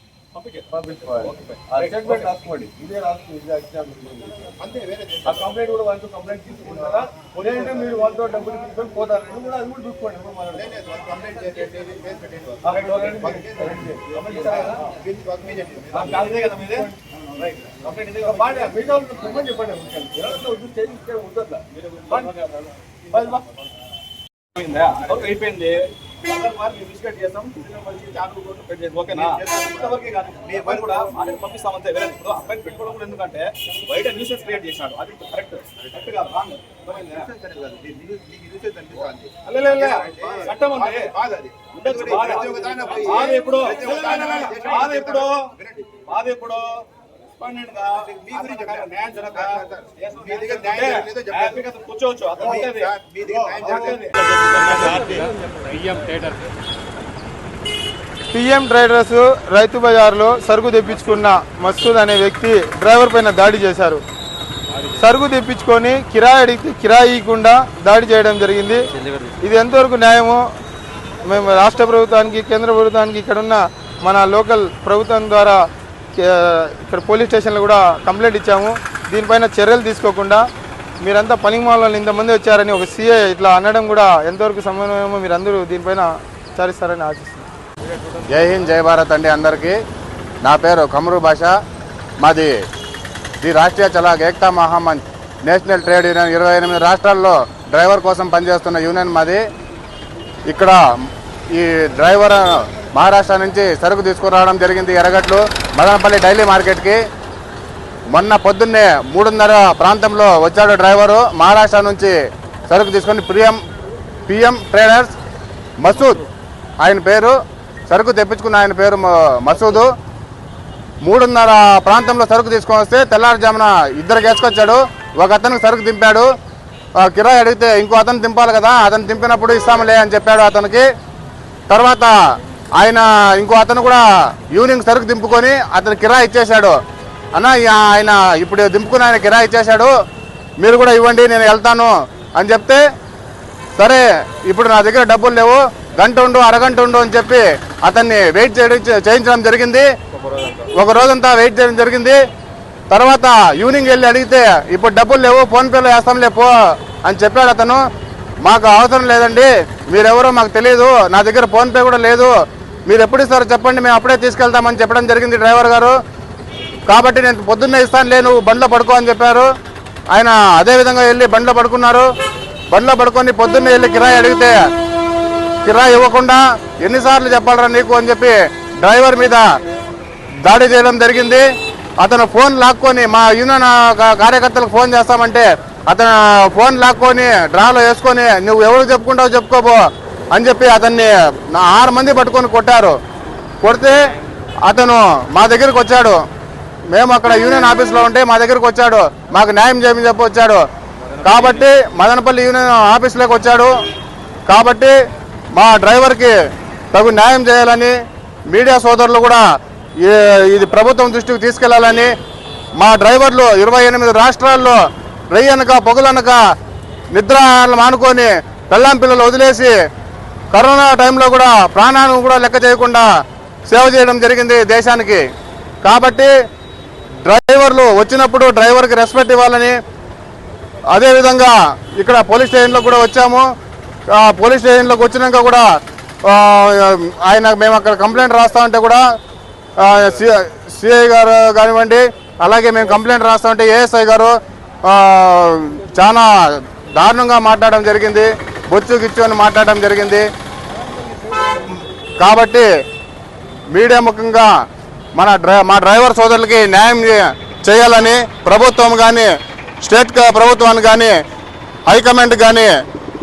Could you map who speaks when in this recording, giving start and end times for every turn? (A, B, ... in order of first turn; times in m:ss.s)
0:00.3-0:02.4 A
0:00.7-0:04.5 B
0:04.6-0:05.6 C
0:05.2-0:10.7 B
0:07.4-0:07.7 A
0:10.5-0:16.4 C
0:12.6-0:14.8 B
0:12.8-0:13.1 A
0:14.5-0:14.8 A
0:15.9-0:18.9 A
0:15.9-0:16.9 B
0:18.2-0:22.4 B
0:21.8-0:23.4 A
0:23.1-0:23.4 B
0:24.6-0:37.3 A
0:29.1-0:31.1 C
0:36.9-0:46.0 C
0:39.4-0:41.1 A
0:41.7-0:45.5 A
0:46.0-0:46.9 A
0:47.4-0:56.0 A
0:47.8-0:51.7 C
0:52.4-0:54.2 C
0:58.3-1:04.0 D
1:04.9-1:08.9 D
1:09.4-1:10.4 D
1:11.2-1:20.4 D
1:21.0-1:27.4 D
1:28.3-1:29.8 E
1:30.4-1:31.6 E
1:32.2-1:32.6 E
1:33.4-1:39.4 E
1:40.5-1:40.8 E
1:41.5-1:47.0 E
1:48.1-1:52.2 E
1:52.7-1:53.6 E
1:54.3-1:55.1 E
1:55.8-1:56.2 E
1:56.8-1:57.4 E
1:57.9-1:59.9 E
2:01.0-2:06.3 E
2:07.0-2:10.9 E
2:11.7-2:12.1 E
2:12.8-2:16.8 E
2:17.3-2:19.9 E
2:20.6-2:22.8 E
2:23.8-2:29.9 E
2:30.7-2:32.2 E
2:32.9-2:36.5 E
2:37.0-2:37.8 E
2:38.4-2:42.3 E
2:42.9-2:46.0 E
2:46.9-2:49.5 E
2:50.1-2:52.1 E
2:52.7-2:54.6 E
2:55.6-2:59.4 E
3:00.4-3:01.4 E
3:02.0-3:12.9 E
3:13.6-3:14.0 E
3:14.6-3:16.2 E
3:16.9-3:20.6 E
3:21.2-3:23.7 E
3:24.5-3:24.9 E
3:25.5-3:26.3 E
3:26.9-3:27.9 E
3:28.5-3:29.4 E
3:30.0-3:32.1 E
3:32.8-3:34.8 E
3:35.3-3:36.4 E
3:37.1-3:39.7 E
3:40.5-3:43.1 E
3:43.7-3:45.2 E
3:45.8-3:46.3 E
3:47.2-3:49.8 E
3:50.9-3:53.4 E
3:54.1-3:55.6 E
3:56.2-3:59.0 E
3:59.8-4:04.3 E
4:04.8-4:10.2 E
4:10.8-4:11.8 B
4:12.2-4:12.7 E
4:13.7-4:14.5 E
4:15.2-4:19.3 E
4:19.8-4:21.1 E
4:21.9-4:22.7 E